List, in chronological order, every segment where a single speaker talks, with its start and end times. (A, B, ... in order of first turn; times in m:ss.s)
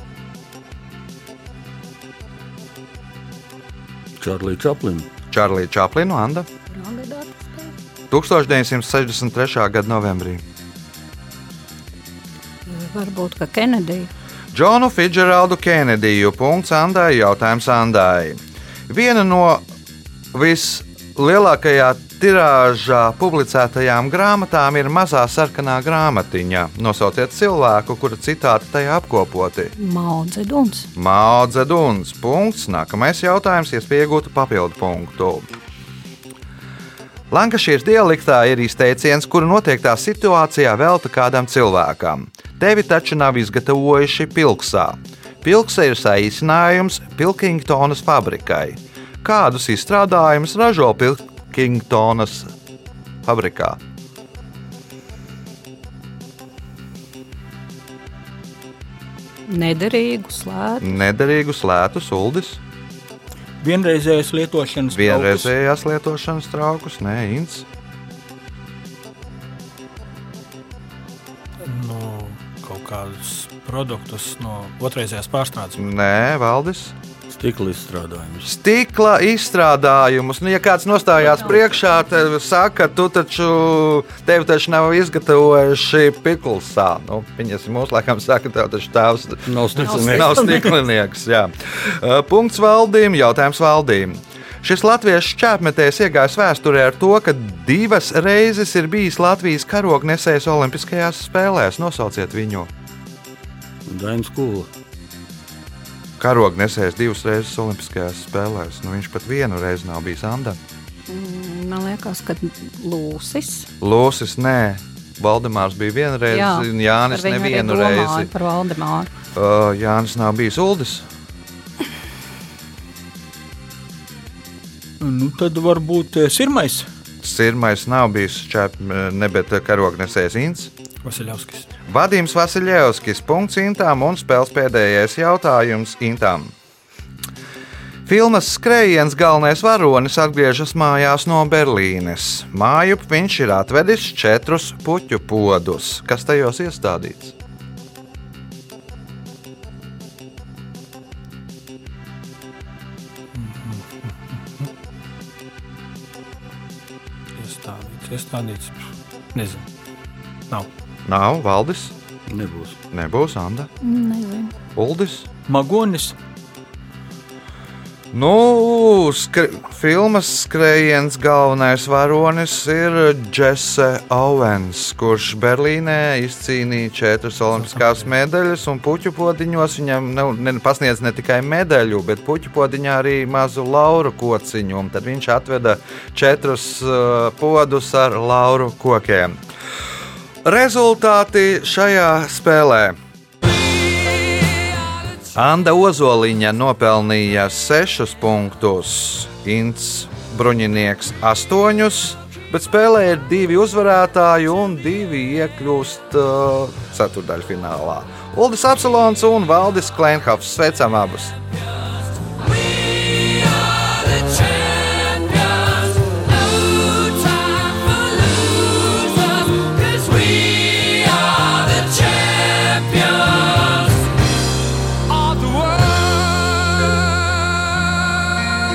0:04.2-0:05.1 A
0:05.3-0:06.5 B
0:06.7-0:07.8 C
0:08.1-0:10.4 B
0:12.7-0:14.1 C
0:14.5-0:19.6 B
0:20.3-0:29.7 B
0:29.8-0:30.9 C
0:31.0-0:35.5 B
0:37.3-0:52.5 B
0:53.2-0:53.8 B
0:59.5-1:01.0 C
1:00.8-1:02.6 B
1:03.6-1:05.5 D
1:04.9-1:07.7 B
1:11.6-1:15.9 E
1:15.8-1:16.9 B
1:17.3-1:18.5 A
1:18.4-1:42.7 B
1:29.5-1:30.8 A
1:43.9-1:44.7 A
1:46.2-1:50.6 B
1:51.1-1:53.7 C
1:53.8-1:58.3 B
1:56.3-1:59.1 C
1:59.4-2:01.1 B
2:05.0-2:06.9 D
2:07.2-2:10.7 B
2:11.0-2:11.7 E
2:11.9-2:16.5 B
2:18.1-2:27.4 B
2:33.3-2:34.7 E
2:37.4-2:39.6 E
2:41.1-2:41.9 B
2:42.3-2:42.8 A
2:42.9-2:43.7 B
2:43.8-2:44.5 C
2:44.8-2:45.3 B
2:45.5-2:46.2 D
2:48.1-3:09.4 B
2:57.7-2:58.0 E
3:10.4-3:13.0 B
3:15.3-3:31.4 B
3:38.8-3:39.1 B
3:40.0-3:41.8 B
3:45.2-3:46.8 B